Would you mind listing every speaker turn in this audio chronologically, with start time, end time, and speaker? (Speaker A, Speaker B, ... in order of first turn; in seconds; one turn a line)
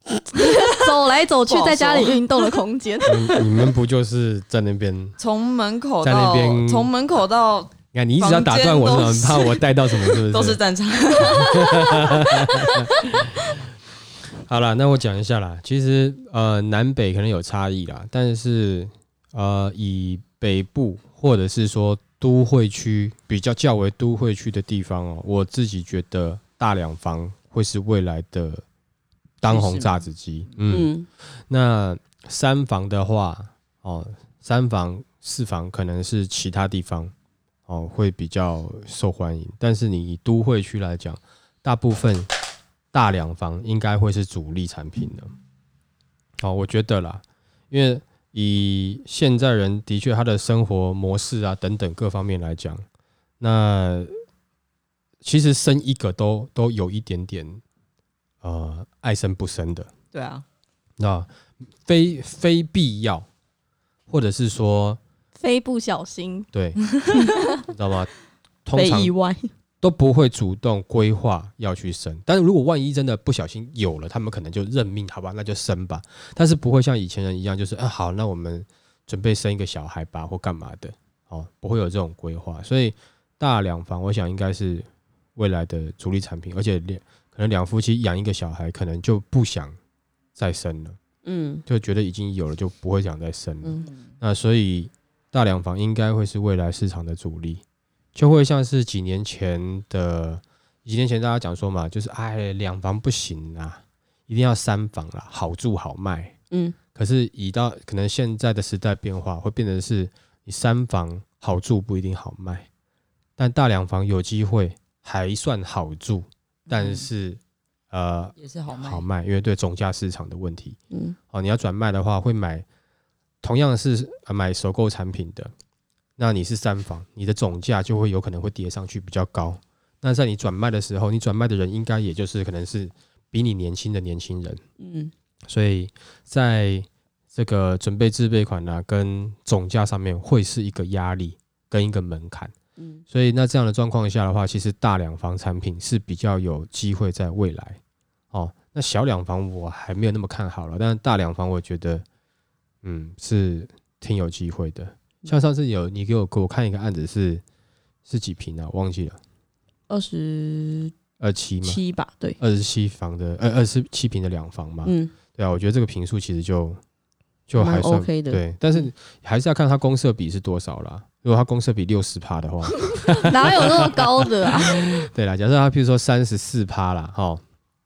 Speaker A: 0.3-3.2
Speaker B: 0.6-0.9
Speaker B: 1.4-2.2
Speaker C: 3.0-5.2
Speaker B: 5.2-13.1
Speaker C: 6.0-6.9
Speaker C: 7.9-10.6
Speaker C: 11.2-13.3
Speaker C: 14.4-28.6
Speaker C: 29.4-37.1
Speaker B: 29.5-29.9
Speaker D: 30.7-31.1
Speaker C: 37.7-42.3
Speaker C: 42.9-45.3
Speaker C: 46.4-52.8
Speaker C: 53.4-54.1
Speaker C: 55.2-57.6
Speaker C: 58.4-59.9
Speaker B: 60.1-60.4
Speaker C: 61.0-61.3
Speaker C: 61.8-63.2
Speaker C: 64.1-65.0
Speaker A: 65.4-66.5
Speaker C: 66.5-66.8
Speaker B: 67.0-67.2
Speaker C: 67.7-68.1
Speaker C: 68.6-69.1
Speaker D: 68.7-69.5
Speaker C: 69.8-89.8
Speaker C: 90.3-91.0
Speaker D: 91.2-91.6
Speaker C: 91.7-97.6
Speaker B: 93.8-94.1
Speaker C: 98.1-106.3
Speaker D: 106.5-106.8
Speaker C: 106.9-112.7
Speaker C: 113.4-117.4
Speaker B: 116.7-117.1
Speaker C: 117.9-120.8
Speaker B: 118.4-119.0
Speaker D: 120.9-121.2
Speaker C: 121.3-122.6
Speaker C: 123.4-125.5
Speaker C: 126.2-134.6
Speaker D: 134.8-135.1
Speaker C: 135.5-142.5
Speaker D: 142.8-143.0
Speaker C: 143.1-147.8
Speaker C: 148.3-152.0
Speaker C: 152.8-157.4
Speaker C: 158.1-159.2
Speaker D: 159.9-160.9
Speaker C: 161.2-161.8
Speaker D: 161.6-162.4
Speaker C: 162.4-166.8
Speaker D: 164.8-165.1
Speaker C: 167.5-177.4
Speaker D: 167.6-168.4
Speaker A: 173.1-174.9